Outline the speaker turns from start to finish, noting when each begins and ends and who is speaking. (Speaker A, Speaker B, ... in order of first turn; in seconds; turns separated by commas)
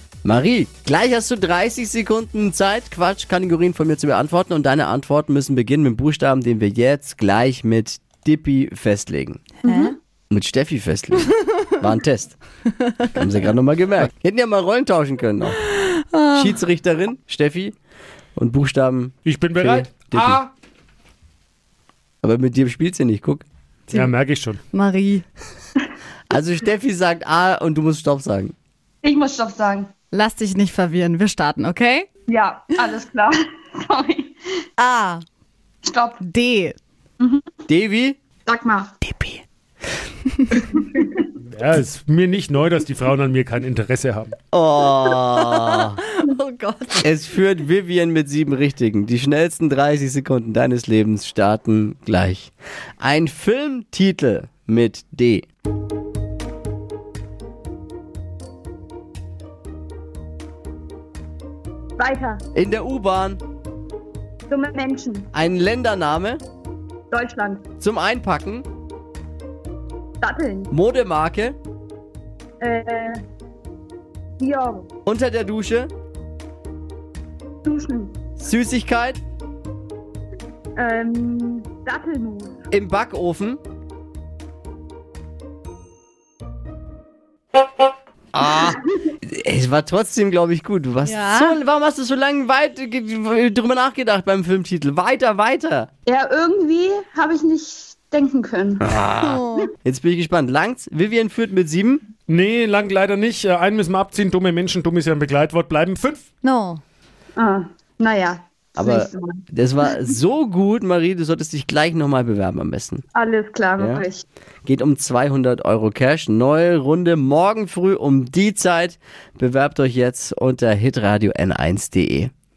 Speaker A: 0.2-9.4, Speaker B: 9.7-9.9, Speaker C: 9.7-9.9, Speaker A: 10.3-12.3, Speaker A: 13.1-15.6, Speaker A: 16.3-17.7, Speaker A: 18.4-20.4, Speaker D: 19.2-20.5, Speaker A: 22.2-23.4, Speaker D: 23.9-24.6, Speaker C: 24.8-25.2, Speaker A: 26.3-28.5, Speaker B: 29.0-29.9, Speaker C: 30.1-32.1, Speaker B: 32.3-34.4, Speaker C: 34.8-35.2, Speaker B: 35.8-36.2, Speaker C: 36.2-36.8, Speaker B: 37.2-37.5, Speaker A: 37.7-38.2, Speaker B: 38.5-38.9, Speaker B: 40.5-41.3, Speaker D: 41.5-44.3, Speaker A: 44.5-46.0, Speaker C: 46.3-47.0, Speaker A: 47.0-55.5, Speaker B: 62.0-62.4, Speaker A: 62.5-63.4, Speaker B: 64.5-65.3, Speaker A: 65.3-66.4, Speaker B: 67.1-67.7, Speaker A: 67.8-68.7, Speaker B: 70.2-70.7, Speaker A: 70.7-71.6, Speaker B: 72.6-73.2, Speaker B: 74.4-74.9, Speaker A: 75.0-75.9, Speaker B: 77.6-78.2, Speaker A: 78.4-79.2, Speaker B: 80.8-82.6, Speaker A: 82.7-83.6, Speaker A: 88.3-95.9, Speaker B: 96.0-98.9, Speaker A: 98.8-102.0, Speaker D: 102.3-106.3, Speaker C: 106.4-106.8, Speaker B: 107.3-109.4, Speaker A: 108.8-113.0, Speaker B: 113.1-114.2, Speaker A: 113.8-114.0, Speaker A: 114.6-122.3